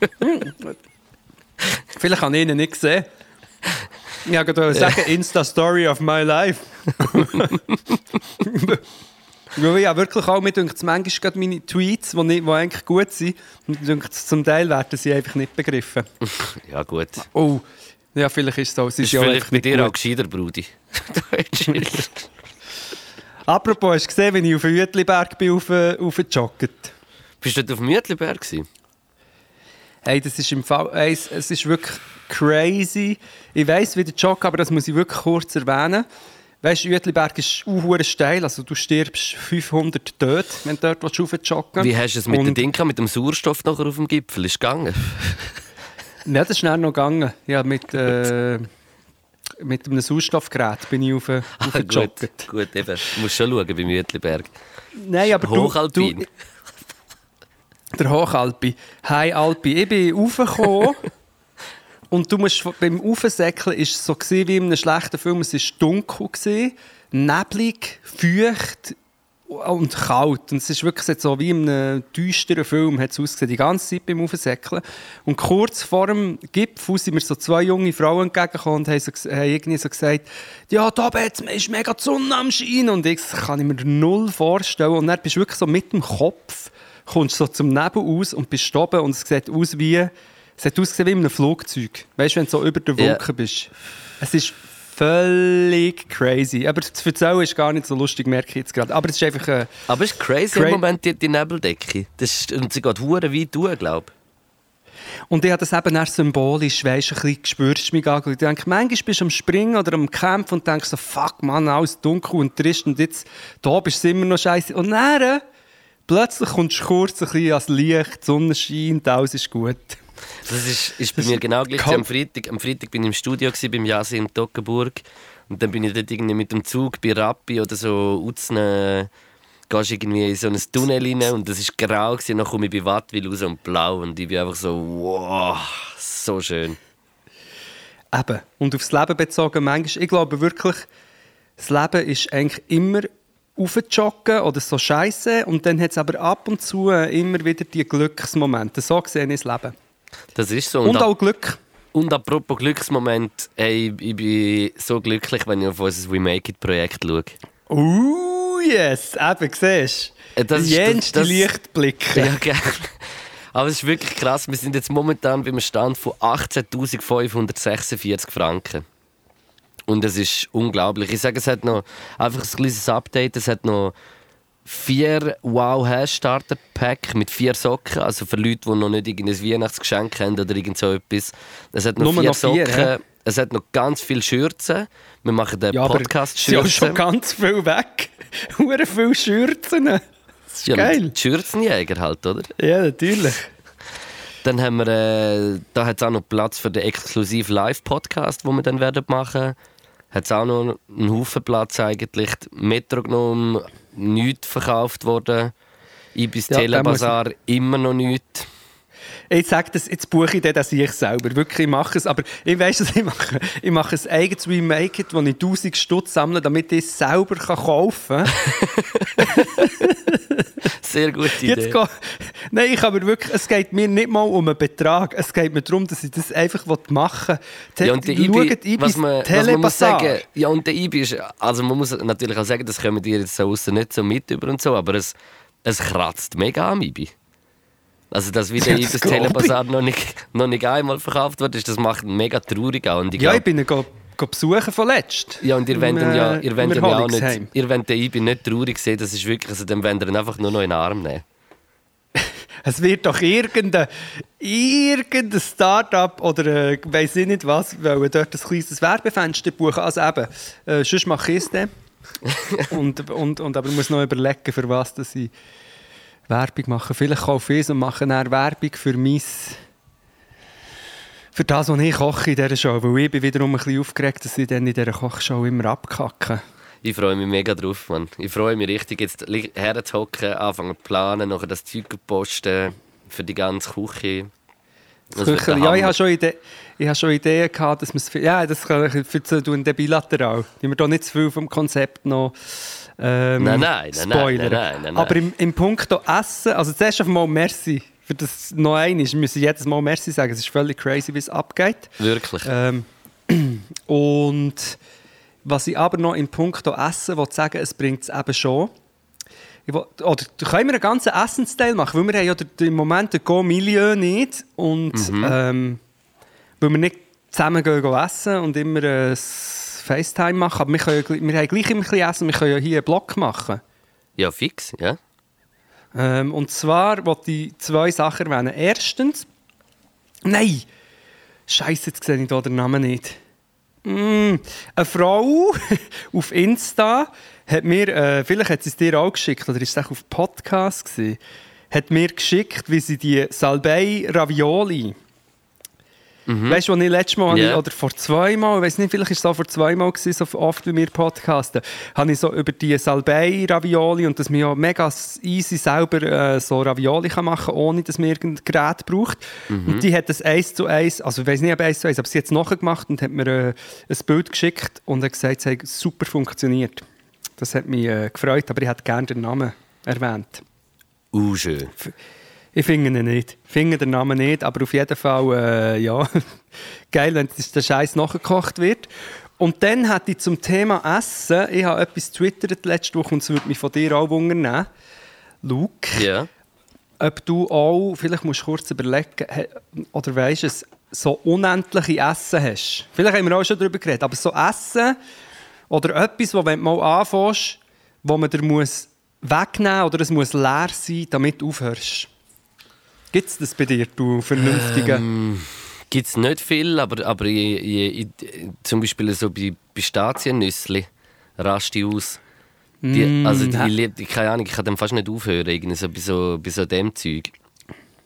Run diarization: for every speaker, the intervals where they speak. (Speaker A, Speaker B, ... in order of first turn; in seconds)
Speaker A: 0.2-0.7, 1.9-3.0, 4.2-7.6, 8.4-8.8, 9.5-16.1, 17.2-19.9, 23.5-26.9, 30.0-36.0, 36.6-42.6, 46.2-48.7, 49.6-52.5, 55.0-56.2, 58.0-61.1, 62.1-69.0, 69.5-99.7, 100.5-100.8, 105.3-115.4, 116.1-120.0, 121.2-122.0, 138.1-140.9, 141.6-149.7, 150.8-151.6, 157.7-162.4, 182.0-182.9, 185.7-191.1, 192.6-193.5, 206.5-207.1, 209.3-218.4, 219.2-220.7, 221.3-230.2, 238.6-239.6, 243.2-247.5, 252.2-261.7, 262.7-265.3, 266.3-269.6, 271.3-276.4, 285.1-292.3, 292.9-304.8, 305.4-308.7, 309.7-315.8, 316.6-323.6, 325.9-329.3, 330.2-330.7, 331.5-333.2, 333.8-341.2, 341.7-344.9, 346.5-366.8, 367.4-370.4, 372.5-384.7, 385.4-386.1, 387.0-395.0, 395.7-402.1, 403.1-405.1, 412.8-413.7
Speaker B: 7.1-7.5, 16.2-17.2, 19.0-22.3, 27.4-28.7, 41.8-45.6, 51.6-54.5, 55.2-56.2, 99.9-104.1, 120.5-129.1, 129.7-136.8, 150.3-151.1, 151.9-157.3, 160.3-161.5, 162.1-168.8, 169.9-173.9, 174.6-187.0, 190.7-192.5, 194.4-199.6, 200.1-205.5, 206.1-208.5, 218.4-219.7, 220.8-221.8, 227.8-237.1, 238.1-243.4, 245.4-251.2, 262.2-262.6, 276.8-284.3, 285.1-285.9, 293.4-295.2, 302.0-302.5, 314.9-315.4, 324.2-325.0, 346.3-346.6, 347.3-347.6, 359.5-359.8, 371.1-371.7, 385.9-386.3, 404.4-410.9, 411.4-412.2, 412.9-417.3